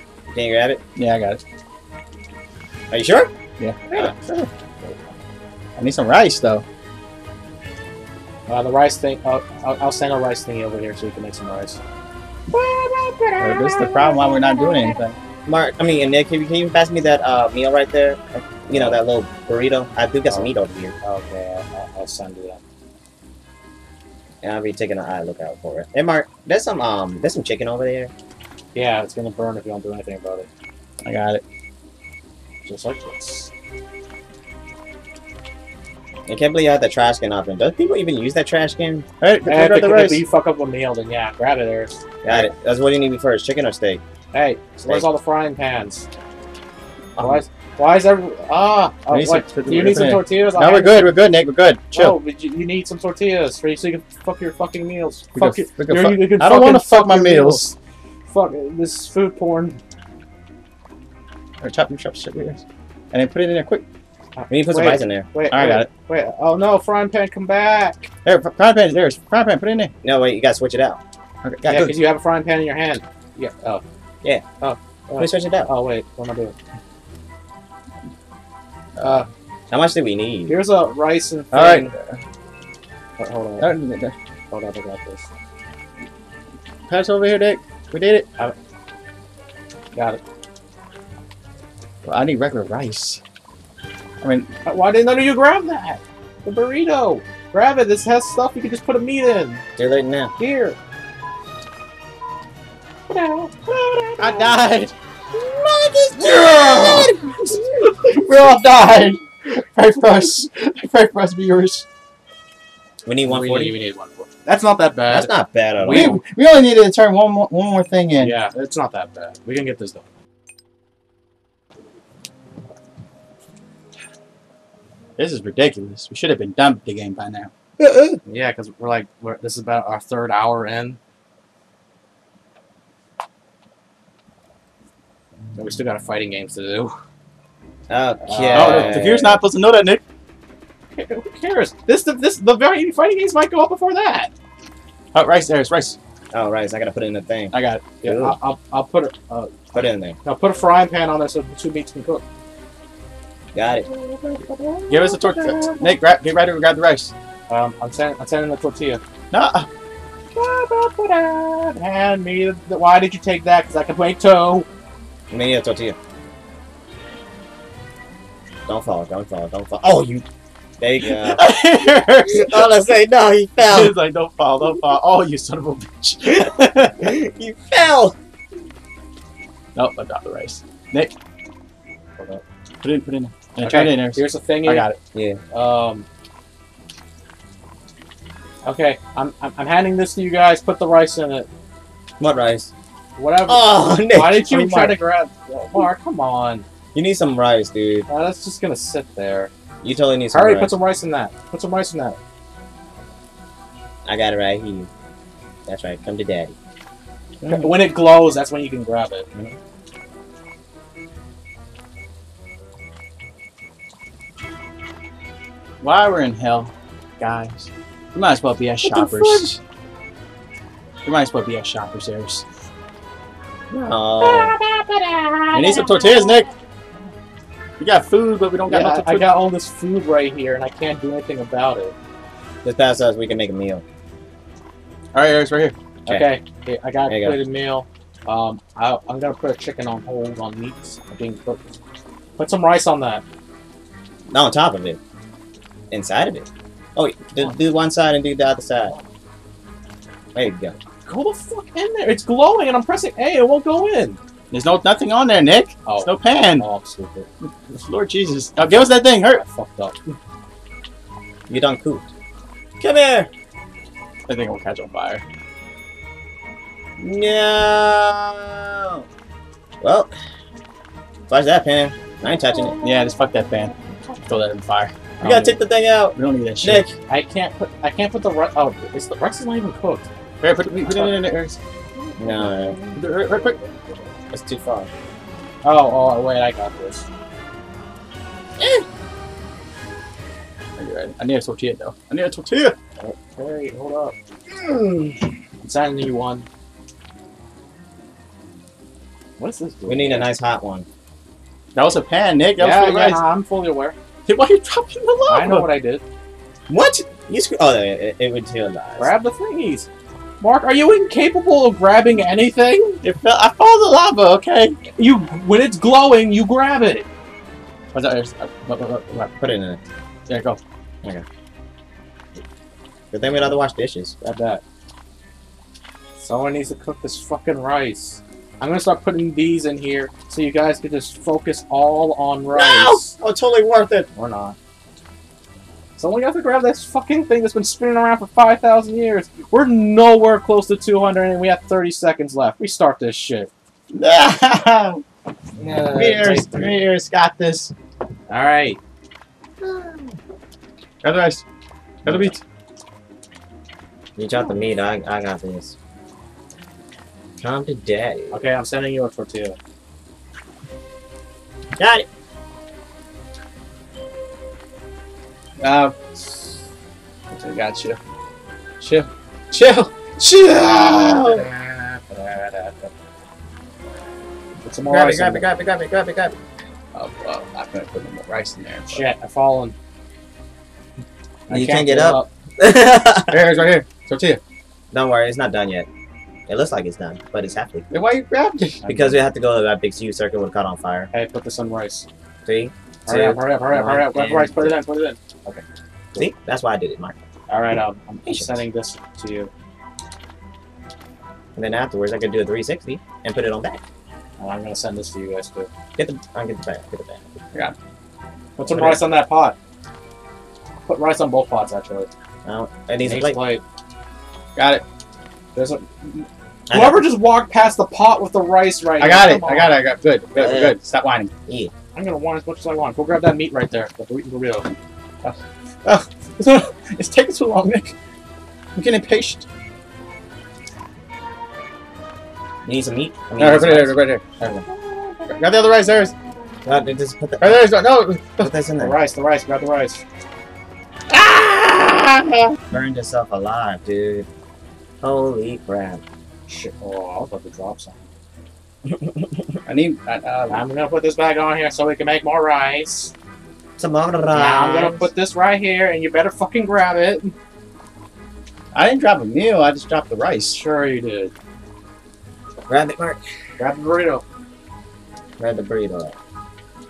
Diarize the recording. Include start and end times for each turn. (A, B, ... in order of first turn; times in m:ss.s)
0:00.3-0:00.8 A
0:01.0-0:01.4 B
0:02.9-0:03.3 A
0:03.6-0:03.9 B
0:03.9-0:05.0 C
0:05.8-0:06.6 B
0:08.5-0:11.8 C
0:12.5-0:15.0 C
0:13.4-0:15.2 B
0:15.5-0:20.9 A
0:18.7-0:19.0 C
0:20.2-0:22.6 C
0:24.4-0:28.1 A
0:28.7-0:30.5 C
0:31.0-0:31.4 B
0:32.7-0:33.5 C
0:36.3-0:39.0 A
0:39.2-0:40.2 B
0:39.5-0:42.4 C
0:42.2-0:44.0 A
0:44.3-0:46.1 C
0:47.2-0:47.4 A
0:47.2-0:51.1 C
0:49.1-0:52.2 B
0:51.9-0:57.7 C
0:55.3-0:57.7 B
0:58.3-0:59.8 C
1:01.6-1:03.8 B
1:04.4-1:08.1 C
1:04.5-1:05.3 A
1:05.5-1:05.9 B
1:08.2-1:09.9 B
1:10.0-1:11.0 A
1:11.4-1:11.9 B
1:11.6-1:13.8 C
1:11.7-1:11.9 A
1:14.6-1:16.5 C
1:15.2-1:15.7 A
1:19.0-1:19.2 B
1:19.0-1:19.3 C
1:19.7-1:20.6 A
1:20.5-1:21.9 C
1:21.5-1:22.2 B
1:23.2-1:23.7 C
1:23.6-1:24.1 B
1:24.5-1:25.3 C
1:26.9-1:28.3 B
1:29.9-1:30.2 C
1:32.0-1:33.2 B
1:34.2-1:34.5 B
1:34.6-1:39.6 C
1:39.8-1:40.3 A
1:40.4-1:40.8 C
1:43.1-1:44.6 C
1:44.2-1:44.9 B
1:46.1-1:51.8 B
1:46.2-1:47.9 C
1:46.3-1:47.1 A
1:53.0-1:53.8 A
1:53.2-1:56.2 C
1:55.1-1:56.2 A
1:55.9-1:58.4 B
1:58.2-2:00.1 C
2:05.2-2:07.5 B
2:07.8-2:08.2 A
2:08.2-2:11.0 C
2:15.5-2:16.9 C
2:17.9-2:19.4 A
2:18.2-2:19.1 C
2:18.5-2:20.0 B
2:20.9-2:24.3 C
2:25.1-2:26.0 B
2:26.3-2:28.4 A
2:27.5-2:27.8 B
2:28.0-2:32.2 C
2:29.7-2:30.2 A
2:33.5-2:33.8 A
2:33.7-2:36.0 C
2:34.9-2:37.1 B
2:37.5-2:39.0 C
2:39.3-2:39.7 B
2:40.3-2:44.7 C
2:45.3-2:46.0 A
2:48.7-2:50.2 A
2:50.8-2:51.5 A
2:51.0-2:52.8 B
2:52.3-2:53.9 A
2:53.6-2:57.1 B
2:56.2-2:58.2 A
2:59.8-3:01.1 B
3:02.2-3:02.4 C
3:02.8-3:05.0 B
3:03.6-3:04.9 C
3:05.1-3:05.4 A
3:05.5-3:06.0 C
3:08.6-3:11.5 C
3:12.2-3:12.7 A
3:13.2-3:16.6 C
3:13.5-3:15.0 A
3:16.9-3:18.1 A
3:18.1-3:19.5 C
3:19.8-3:20.7 A
3:20.3-3:22.2 C
3:24.0-3:24.9 A
3:25.7-3:26.5 A
3:27.4-3:27.7 A
3:27.4-3:29.2 C
3:35.8-3:39.6 B
3:38.8-3:39.5 C
3:41.0-3:42.4 B
3:43.7-3:44.5 A
3:44.2-3:46.5 C
3:45.5-3:46.5 B
3:47.8-3:49.3 B
3:48.7-3:51.9 C
3:52.6-3:53.8 A
3:55.1-3:55.8 B
3:56.0-4:01.7 C
3:57.1-3:57.4 A
4:02.4-4:03.2 C
4:04.3-4:05.0 A
4:05.9-4:09.0 A
4:10.3-4:10.8 A
4:11.0-4:14.2 C
4:14.5-4:16.6 B
4:15.8-4:17.3 C
4:17.4-4:19.4 B
4:18.6-4:20.1 C
4:21.5-4:22.1 A
4:22.8-4:23.3 A
4:24.3-4:25.2 B
4:27.0-4:29.0 A
4:29.8-4:30.1 A
4:31.3-4:32.8 A
4:32.8-4:35.1 B
4:35.2-4:36.9 A
4:36.2-4:36.9 B
4:37.1-4:40.1 C
4:40.4-4:41.6 B
4:40.8-4:41.2 C
4:42.0-4:43.8 C
4:42.2-4:42.8 A
4:42.9-4:43.6 B
4:44.3-4:44.9 A
4:45.6-4:47.0 C
4:50.8-4:52.8 B
4:53.0-4:54.2 C
4:54.6-4:55.3 A
4:55.6-4:56.5 C
4:59.4-5:00.3 C
4:59.9-5:00.9 A
5:01.8-5:03.2 B
5:02.6-5:03.9 C
5:04.2-5:05.7 B
5:05.3-5:06.0 C
5:06.7-5:09.1 A
5:09.0-5:09.9 C
5:10.4-5:13.0 C
5:13.0-5:14.8 B
5:14.9-5:17.1 C
5:17.9-5:19.3 B
5:19.4-5:19.8 A
5:20.3-5:20.6 B
5:23.1-5:24.4 A
5:24.3-5:24.6 C
5:26.2-5:33.1 C
5:32.5-5:34.1 A
5:34.2-5:34.6 C
5:36.0-5:43.5 C
5:43.9-5:45.0 B
5:45.6-5:46.8 A
5:45.9-5:47.7 B
5:48.3-5:48.8 C
5:49.6-5:50.2 A
5:51.0-5:51.4 B
5:52.0-5:52.4 B
5:54.2-5:55.8 A
5:57.4-5:58.4 A
5:58.3-5:59.6 C
6:01.8-6:02.1 A
6:05.6-6:06.0 B
6:07.3-6:08.0 B
6:08.8-6:11.5 B
6:10.5-6:12.9 C
6:14.6-6:15.5 C
6:14.9-6:16.4 A
6:16.9-6:19.0 B
6:18.9-6:19.8 C
6:21.5-6:22.3 C
6:21.5-6:23.4 A
6:23.3-6:24.4 B
6:24.9-6:25.9 A
6:26.5-6:27.9 A
6:27.9-6:28.8 B
6:28.8-6:29.2 C
6:28.9-6:31.1 A
6:31.1-6:32.0 C
6:32.4-6:34.8 A
6:33.1-6:35.6 C
6:36.1-6:37.2 A
6:37.5-6:39.5 C
6:38.2-6:38.6 A
6:41.6-6:43.8 A
6:44.4-6:45.7 C
6:46.0-6:47.2 A
6:48.6-6:49.6 C
6:48.6-6:49.0 A
6:50.9-6:52.1 C
6:52.4-6:53.4 A
6:53.0-6:53.6 C
6:54.6-6:54.8 B
6:55.5-6:59.8 C
6:56.7-6:57.1 A
6:59.0-7:01.3 B
7:00.3-7:00.8 A
7:01.9-7:04.7 C
7:05.2-7:07.9 B
7:08.8-7:09.4 B
7:12.6-7:14.0 A
7:13.4-7:14.6 B
7:14.4-7:15.3 C
7:15.3-7:16.1 B
7:16.6-7:17.7 A
7:17.4-7:18.5 B
7:18.4-7:19.0 A
7:18.8-7:20.0 C
7:21.1-7:22.6 B
7:22.7-7:24.3 A
7:25.0-7:26.0 A
7:26.5-7:28.0 C
7:28.9-7:29.3 A
7:29.7-7:30.6 B
7:30.5-7:33.1 C
7:33.8-7:35.1 A
7:34.3-7:37.3 C
7:38.7-7:40.6 B
7:40.5-7:41.3 C
7:42.7-7:43.2 A
7:43.6-7:44.2 C
7:45.4-7:46.2 A